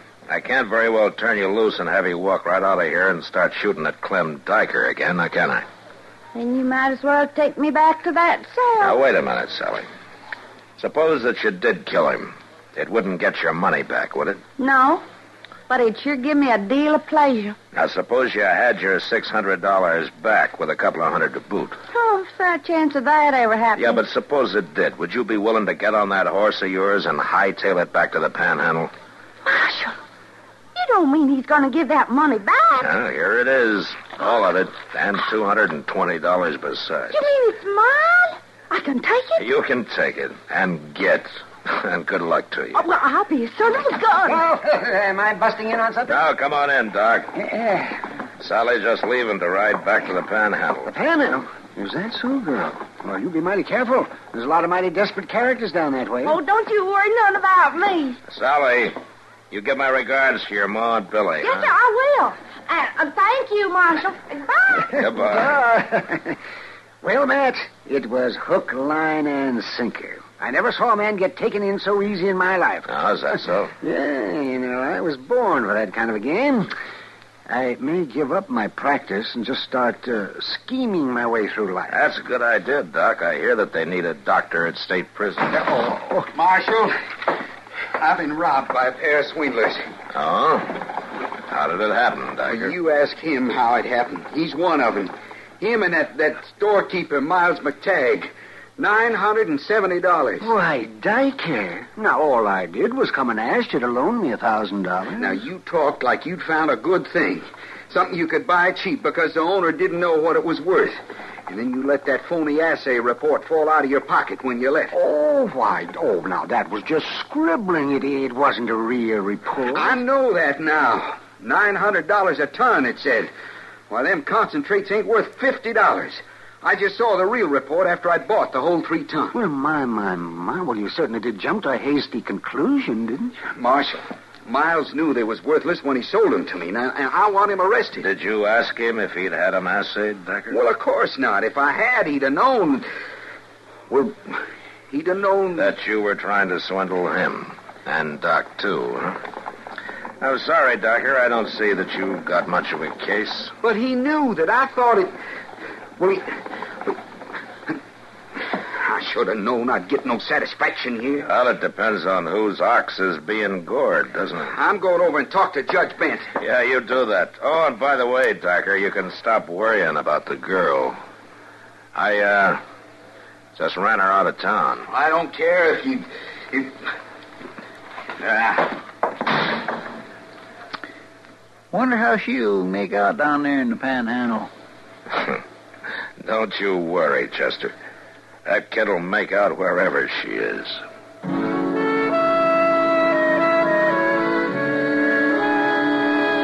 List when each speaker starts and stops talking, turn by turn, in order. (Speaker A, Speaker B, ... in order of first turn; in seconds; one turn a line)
Speaker A: 0.3-5.7
Speaker B: 6.3-9.0
Speaker A: 8.8-9.8
Speaker A: 10.8-14.4
Speaker B: 14.6-15.0
Speaker B: 15.7-17.6
Speaker A: 17.7-21.8
Speaker B: 21.9-24.0
Speaker A: 23.8-28.9
Speaker B: 29.4-29.9
Speaker B: 30.7-32.9
Speaker A: 32.8-37.1
Speaker B: 37.1-39.4
Speaker A: 39.4-42.8
Speaker B: 42.7-44.4
Speaker C: 44.2-46.2
Speaker A: 46.1-47.3
Speaker C: 47.3-48.0
Speaker A: 48.4-50.9
Speaker C: 50.8-56.4
Speaker B: 56.2-58.2
Speaker A: 58.3-59.0
Speaker A: 59.5-61.7
Speaker B: 61.4-64.9
Speaker A: 64.9-65.6
Speaker C: 65.0-66.3
Speaker C: 67.0-72.9
Speaker A: 72.9-73.7
Speaker C: 73.8-76.7
Speaker C: 77.5-81.9
Speaker A: 81.9-85.7
Speaker C: 85.9-86.2
Speaker D: 86.3-87.0
Speaker D: 88.0-89.8
Speaker A: 90.1-90.8
Speaker A: 91.5-92.7
Speaker D: 92.5-100.5
Speaker C: 100.4-105.3
Speaker D: 105.2-111.0
Speaker D: 111.5-114.9
Speaker C: 114.9-120.0
Speaker D: 119.7-123.3
Speaker D: 123.9-129.4
Speaker C: 129.3-133.3
Speaker D: 133.5-138.1
Speaker A: 138.0-140.6
Speaker D: 140.5-142.9
Speaker D: 143.9-145.7
Speaker A: 145.6-149.2
Speaker A: 150.2-153.5
Speaker D: 153.6-155.1
Speaker D: 156.0-156.3
Speaker D: 158.7-161.3
Speaker A: 161.2-164.5
Speaker D: 164.4-166.3
Speaker A: 166.4-171.0
Speaker A: 171.9-172.6
Speaker A: 173.6-174.8
Speaker D: 174.9-176.8
Speaker D: 178.2-178.7
Speaker E: 181.7-184.5
Speaker A: 186.2-187.7
Speaker A: 188.4-190.8